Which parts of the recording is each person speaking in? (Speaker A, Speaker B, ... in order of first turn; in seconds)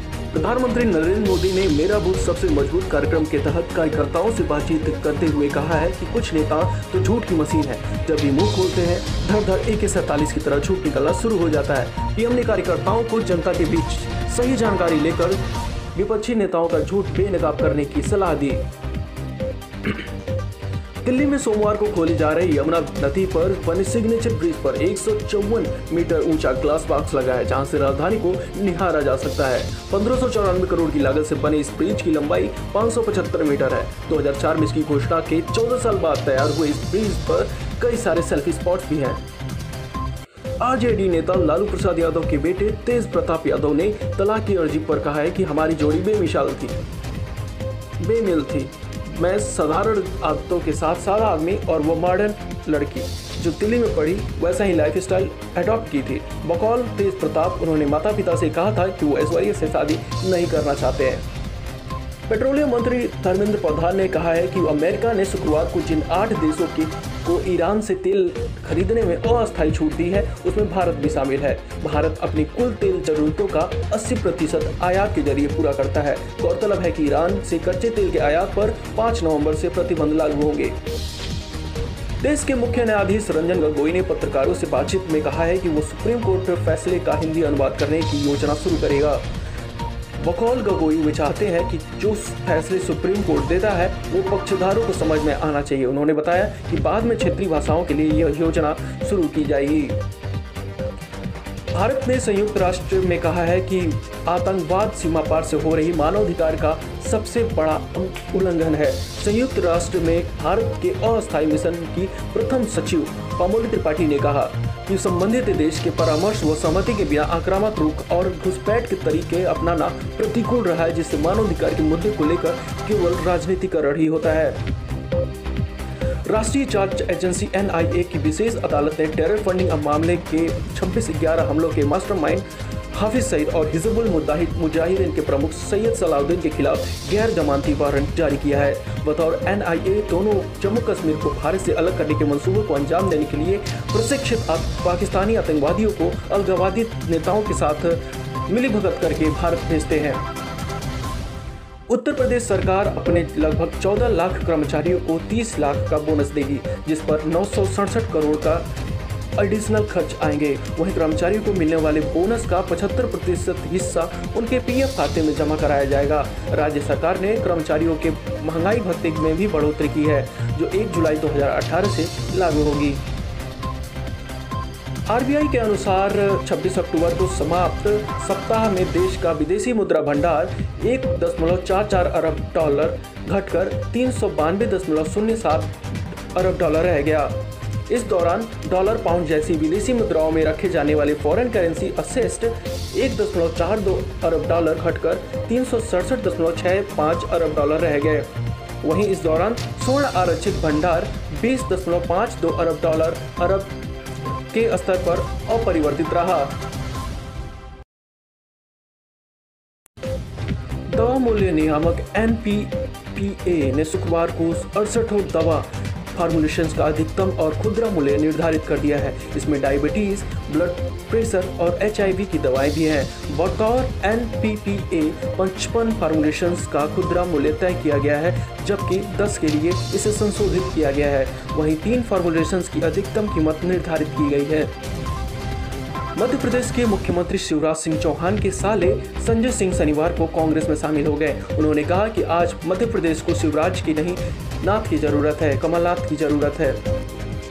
Speaker A: 0.3-15.4, 15.9-18.6, 21.0-39.2, 40.6-46.8, 48.0-61.3, 62.3-80.8, 82.2-89.3, 90.2-100.0, 101.7-124.6, 126.2-150.2, 151.9-158.7, 159.4-173.0, 175.1-203.8, 204.5-206.6, 210.9-234.7, 236.1-246.8